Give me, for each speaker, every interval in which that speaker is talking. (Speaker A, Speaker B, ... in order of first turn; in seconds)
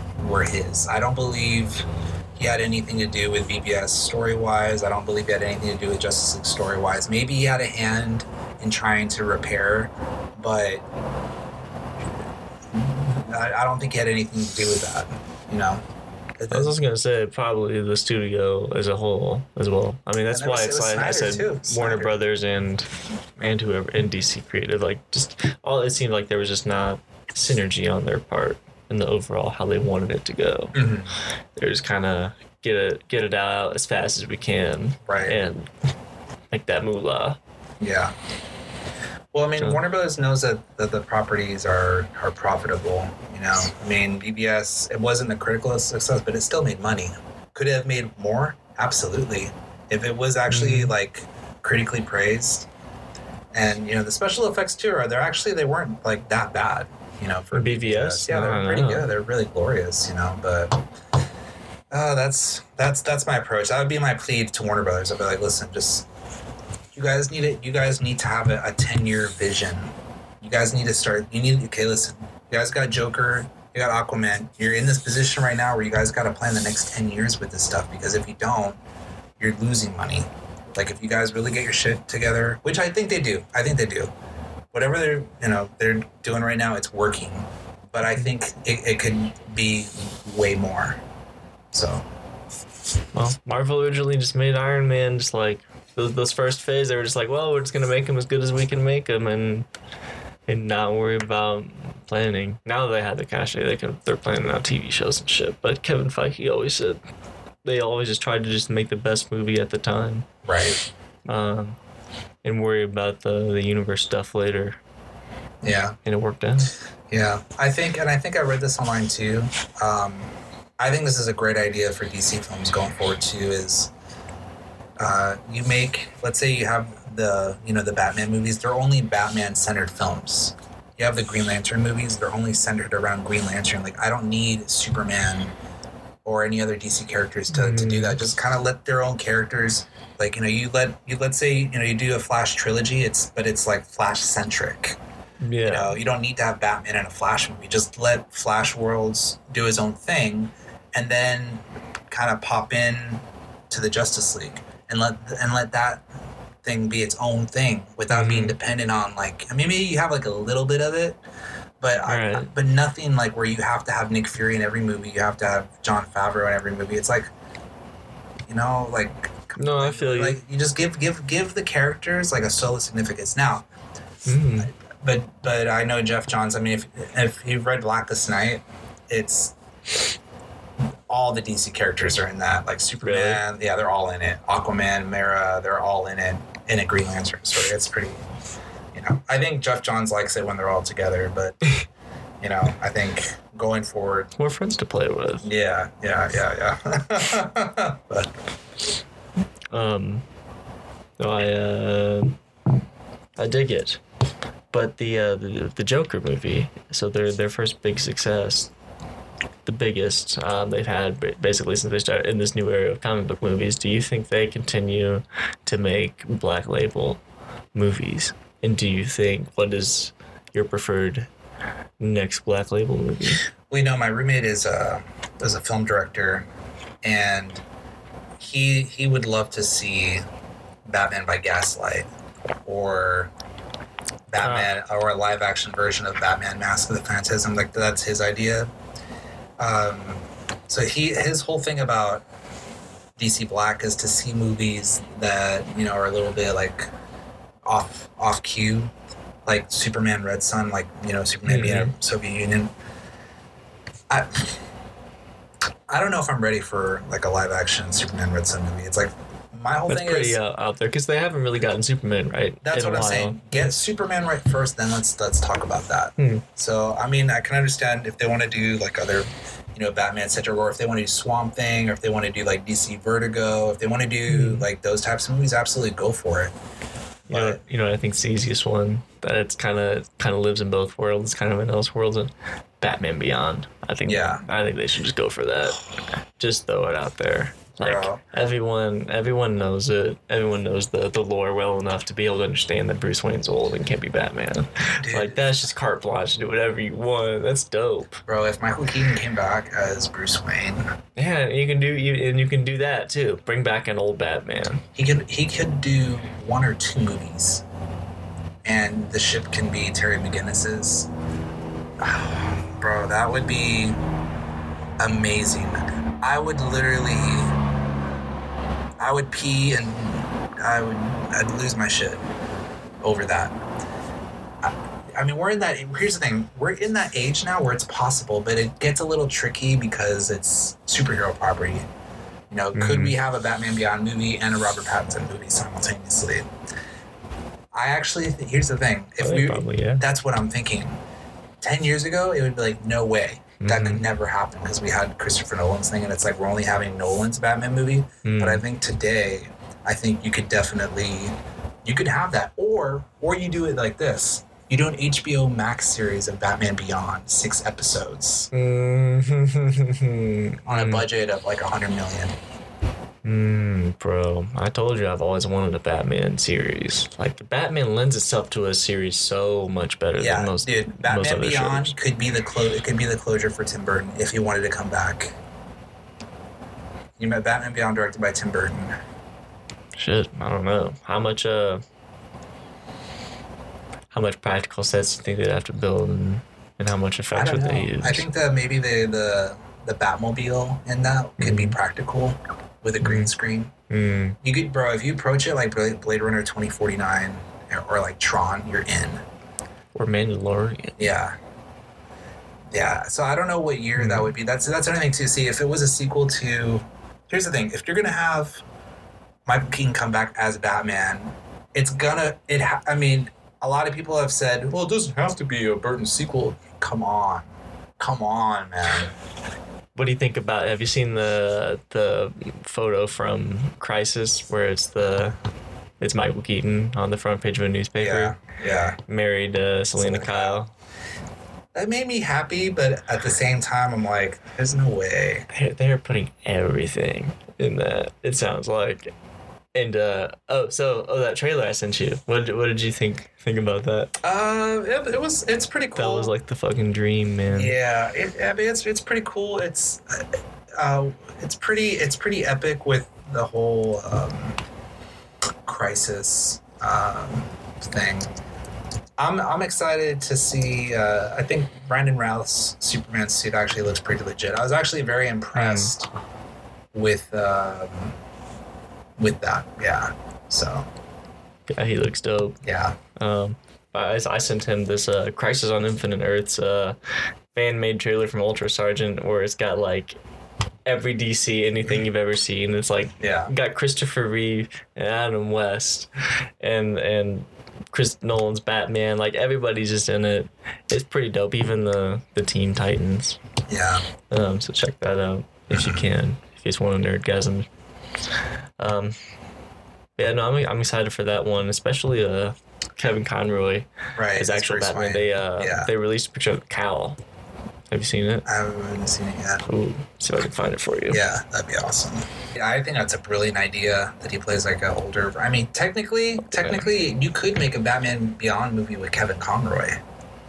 Speaker A: 0.2-10.8, 12.7-15.8, 16.4-16.7, 20.3-22.2, 30.7-31.1, 35.1-35.4, 37.8-38.1, 39.3-52.7, 53.5-60.9, 61.9-66.1, 66.9-78.8, 79.4-84.1, 84.7-91.0, 91.7-92.1, 110.4-110.8, 115.6-116.0, 117.1-123.9, 125.0-135.5, 136.2-145.0, 145.6-156.0, 156.6-161.2, 161.8-167.3, 168.5-173.7, 174.6-179.5, 181.1-188.2, 188.9-191.7, 192.4-194.3, 195.4-198.3, 223.7-226.5, 227.0-227.6, 228.4-230.2, 230.8-232.1, 232.6-233.3, 234.3-238.7, 239.6-242.2, 243.2-246.9, 247.6-248.9, 249.4-252.7, 254.1-254.5, 255.9-260.4, 262.6-276.5, 277.3-277.6, 284.1-284.4, 287.8-288.2, 295.0-295.5, 298.3-300.9, 304.9-307.6, 308.6-311.1, 312.0-314.0, 315.0-317.5, 319.0-322.3, 323.0-323.6, 324.6-331.9, 332.5-336.5, 337.7-341.0, 341.6-358.5, 360.6-362.4, 370.2-375.4, 377.2-379.0, 387.3-393.7, 394.4-399.2, 401.0-401.4, 402.7-408.6, 409.4-419.1, 428.0-429.0, 429.9-430.6, 431.7-435.5, 444.2-446.3, 447.5-454.6, 455.6-458.3, 459.2-466.1, 466.9-468.1, 469.2-470.9, 472.6-473.0, 483.2-483.5, 493.7-494.0, 495.7-496.1, 504.1-505.9, 508.4-509.6, 511.1-520.0
Speaker B: 16.5-30.8, 31.6-35.7, 36.5-37.4, 50.5-50.9, 57.5-59.1, 93.1-99.7, 100.5-107.0, 107.6-110.3, 111.3-111.8, 112.4-114.8, 116.0-116.7, 137.5-138.2, 145.4-146.0, 158.1-158.6, 162.1-162.5, 169.6-170.4, 174.2-174.7, 183.0-183.4, 194.4-195.5, 199.7-200.2, 201.2-202.4, 203.4-204.0, 204.7-208.7, 209.6-217.2, 217.7-221.3, 222.0-223.4, 234.4-234.7, 251.4-251.9, 259.9-263.5, 266.2-266.4, 274.3-274.6, 277.3-285.8, 286.4-298.2, 301.2-304.8, 332.7-333.2, 339.2-340.0, 343.6-344.0, 348.2-348.6, 358.5-361.1, 363.2-371.9, 379.9-381.8, 384.1-388.3, 391.4-391.8, 393.0-393.3, 393.9-394.4, 399.9-401.1, 404.0-404.3, 419.9-425.4, 426.0-428.3, 429.1-430.7, 435.5-439.1, 439.7-444.1, 445.9-447.7, 465.5-465.9, 471.7-472.6, 473.1-476.9, 477.5-480.2, 480.9-486.1, 486.6-493.4, 494.3-497.7, 498.8-499.1, 500.2-507.2, 507.9-508.4, 509.7-511.2, 516.5-516.9